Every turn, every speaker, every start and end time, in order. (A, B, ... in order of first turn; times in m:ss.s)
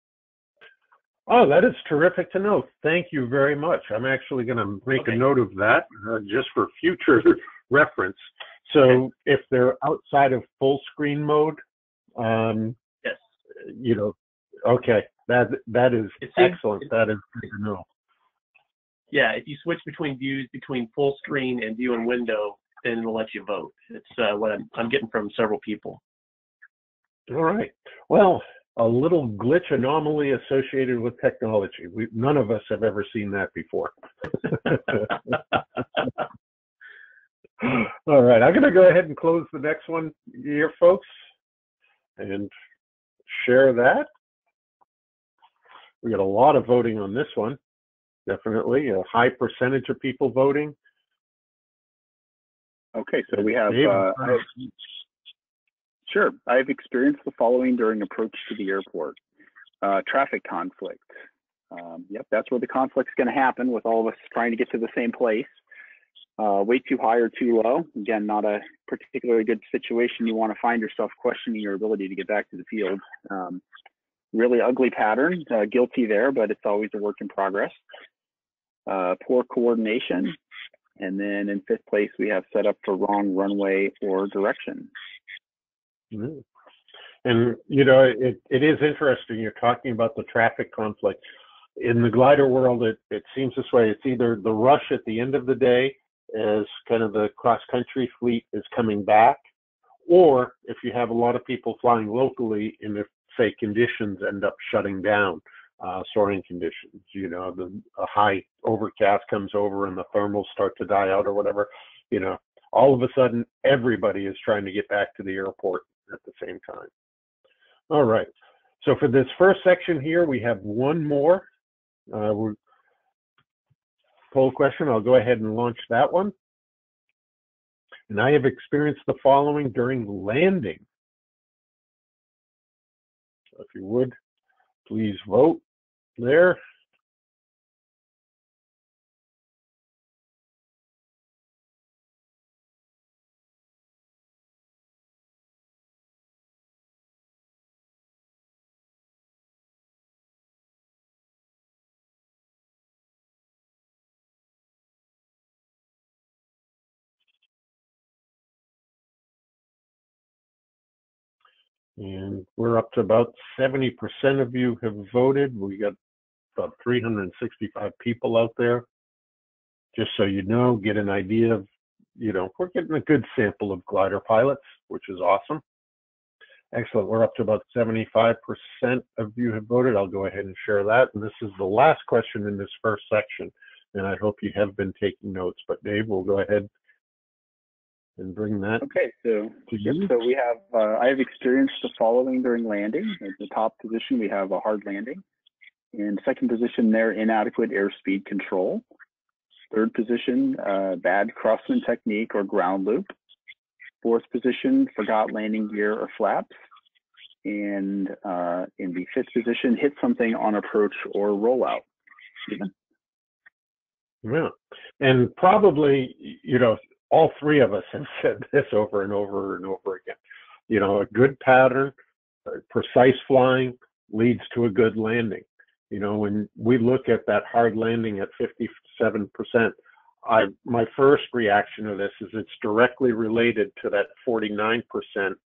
0:01.3-0:11.6 A
0:12.2-0:12.8 A
0:13.6-0:17.8 A
0:16.3-0:16.6 B
0:19.1-0:26.0 B
0:27.3-0:35.4 A
0:37.6-0:41.1 A
0:42.2-0:42.5 A
0:43.3-0:44.1 A
0:46.0-0:47.6 A
0:48.3-0:50.7 A
0:52.9-0:54.4 C
0:53.6-0:54.5 A
0:56.1-0:59.2 C
0:59.8-1:01.1 C
1:01.7-1:05.6 C
1:06.4-1:13.6 C
1:14.3-1:17.8 C
1:18.8-1:20.4 C
1:21.0-1:24.9 C
1:26.1-1:26.4 A
1:27.2-1:31.2 A
1:31.8-1:39.4 A
1:40.1-1:56.9 A
1:57.9-1:58.3 A
1:58.8-2:01.4 A
2:02.1-2:02.6 A
2:04.3-2:06.3 A
2:08.1-2:10.8 A
2:13.6-2:14.1 A
2:14.8-2:15.6 A
2:16.2-2:16.6 A
2:42.0-2:45.9 A
2:46.6-2:48.8 A
2:49.9-2:51.6 A
2:52.2-2:55.6 A
2:56.7-3:06.7 A
3:08.2-3:08.8 A
3:08.8-3:15.2 C
3:09.7-3:10.1 A
3:15.9-3:18.8 C
3:19.7-3:23.1 C
3:24.0-3:26.5 C
3:27.4-3:31.8 C
3:32.4-3:32.7 C
3:34.2-3:40.2 A
3:40.7-3:41.9 A
3:42.5-3:49.7 A
3:50.2-3:55.4 A